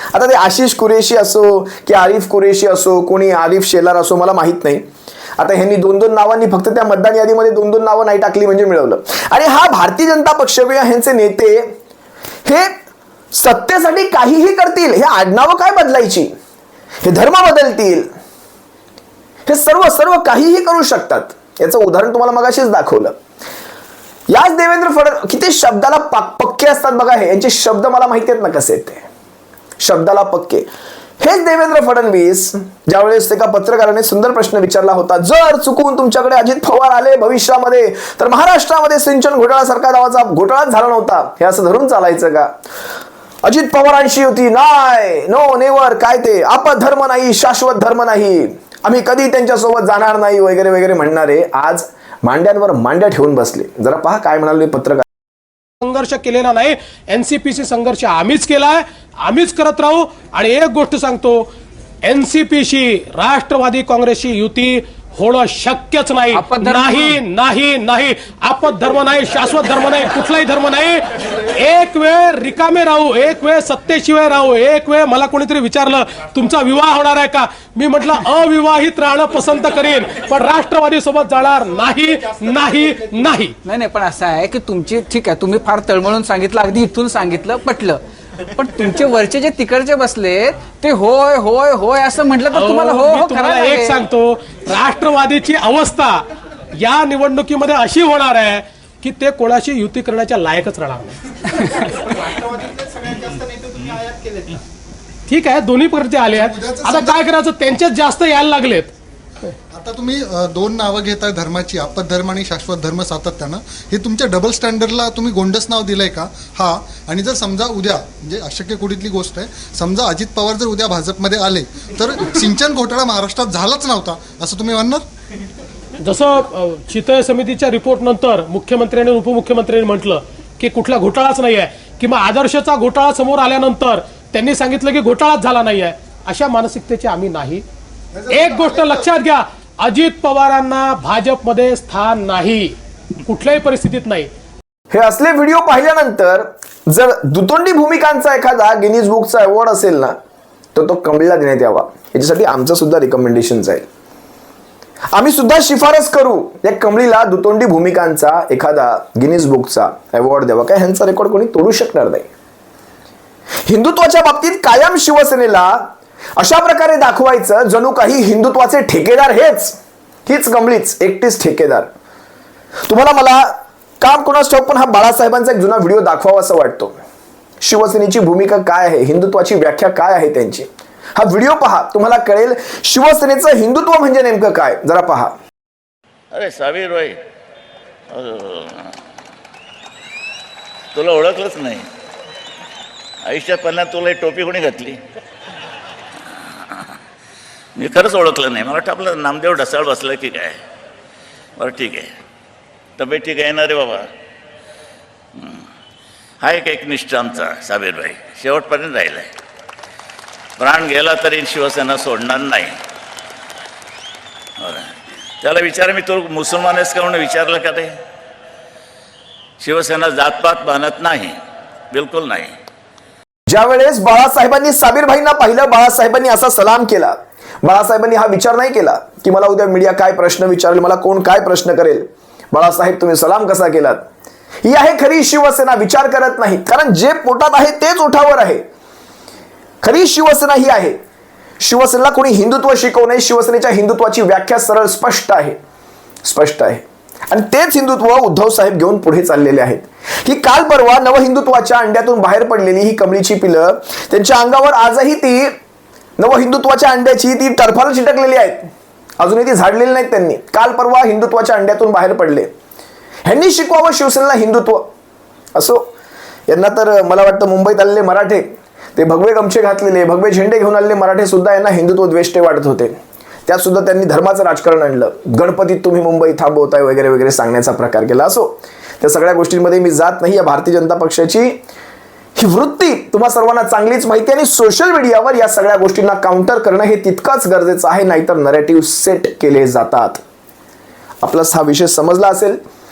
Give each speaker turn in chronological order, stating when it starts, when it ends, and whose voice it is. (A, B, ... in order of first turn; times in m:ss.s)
0:00.1-0:04.8 A
0:05.4-0:11.7 A
0:12.4-0:12.7 A
0:13.3-0:16.3 A
0:17.0-0:18.1 A
0:19.5-0:23.1 A
0:24.3-0:29.0 A
0:29.8-0:30.7 A
0:31.2-0:42.5 A
0:43.4-0:55.0 A
0:55.8-1:01.4 B
1:02.0-1:23.5 B
1:06.3-1:07.2 C
1:23.6-1:28.0 C
1:28.5-1:34.0 C
1:32.5-1:36.2 B
1:36.8-1:42.7 B
1:45.3-1:48.9 B
1:46.3-1:47.2 D
1:49.7-2:05.0 D
2:06.0-2:17.6 B
2:18.1-2:19.0 D
2:18.3-2:22.7 B
2:23.2-2:24.3 B
2:24.9-2:30.2 A
2:30.7-2:33.8 A
2:35.1-2:42.3 A
2:43.7-2:51.9 A
2:52.9-2:57.0 A
2:57.6-3:05.3 A
3:06.3-3:07.2 E
3:08.1-3:08.9 E
3:10.9-3:11.8 E
3:13.2-3:15.0 E
3:17.8-3:20.6 E
3:21.6-3:22.1 E
3:23.0-3:24.0 E
3:25.4-3:25.6 E
3:26.4-3:29.3 E
3:30.6-3:32.8 E
3:34.6-3:34.9 E
3:35.4-3:37.9 E
3:39.6-3:41.4 E
3:41.9-3:42.5 E
3:43.5-3:54.0 A
3:54.6-3:58.6 A
3:59.8-4:01.0 A
4:01.6-4:05.6 A
4:06.2-4:15.5 A
4:16.2-4:22.5 A
4:23.2-4:24.9 A
4:25.5-4:25.9 A
4:26.5-4:32.9 A
4:33.4-4:41.6 A
4:42.4-4:50.2 A
4:51.2-4:52.6 A